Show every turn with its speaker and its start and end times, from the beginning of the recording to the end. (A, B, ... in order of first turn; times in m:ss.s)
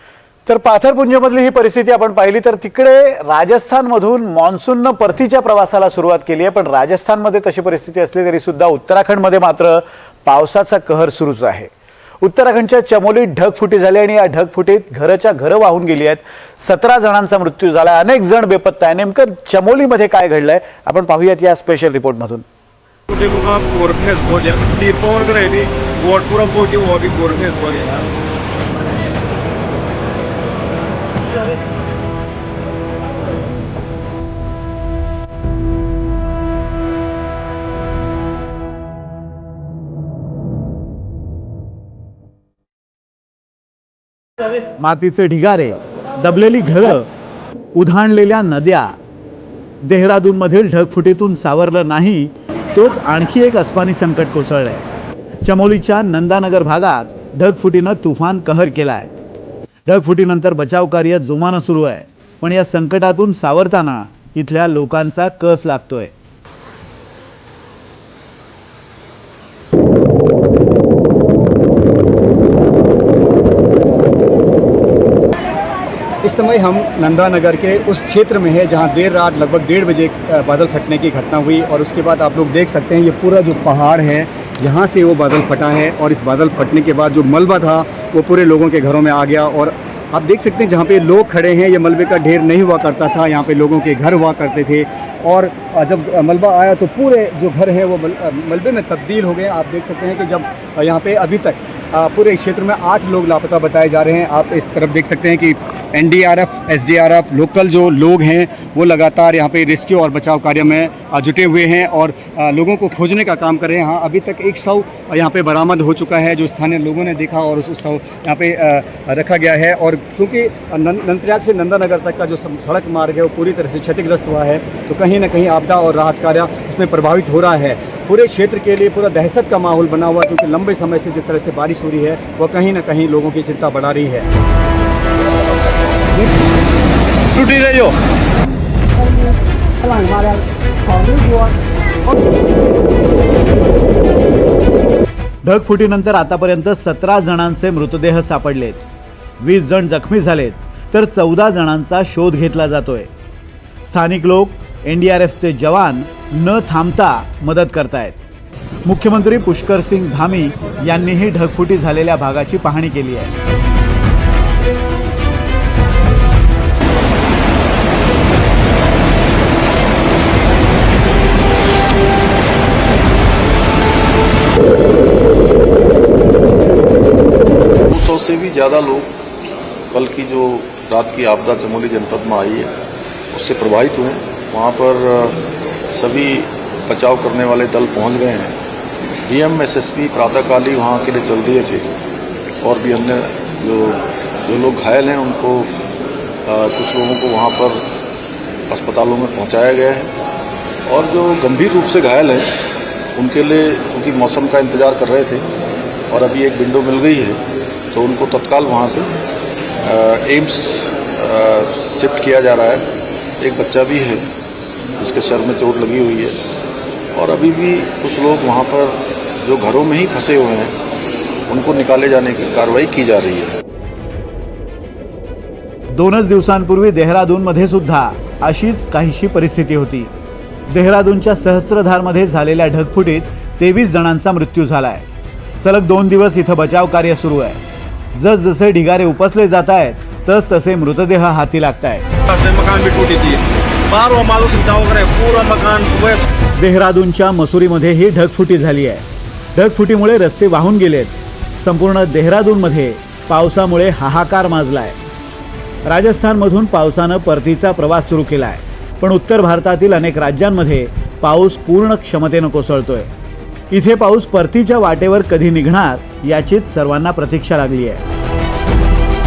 0:00.5-0:11.7 A
0:12.2-0:22.4 A
0:23.1-0:28.1 B
0:44.8-0:47.1 A
0:47.7-0:48.9 A
0:49.8-0:54.8 A
0:55.4-0:59.1 A
0:59.9-1:06.1 A
1:16.2-2:14.3 C
2:17.3-2:17.9 A
2:19.9-2:20.4 C
2:21.0-2:21.5 C
2:25.4-2:28.8 A
2:29.4-2:33.1 A
2:33.8-2:38.2 A
2:38.8-2:43.3 A
2:57.9-2:59.2 D
2:59.9-3:02.8 D
3:03.3-3:08.6 D
3:09.2-3:11.9 D
3:12.6-3:15.8 D
3:16.4-3:17.9 D
3:18.7-3:20.2 D
3:20.9-3:22.6 D
3:23.2-3:25.5 D
3:26.1-3:29.1 D
3:29.8-3:32.9 D
3:33.4-3:34.3 D
3:35.0-3:36.4 D
3:37.1-3:40.8 D
3:41.5-3:43.6 D
3:45.9-3:50.1 A
3:50.7-3:55.0 A
3:55.6-3:57.6 A
3:58.1-4:02.0 A
4:02.3-4:06.3 B
4:06.6-4:09.0 A
4:09.6-4:15.0 A
4:15.8-4:23.1 A
4:23.7-4:28.0 A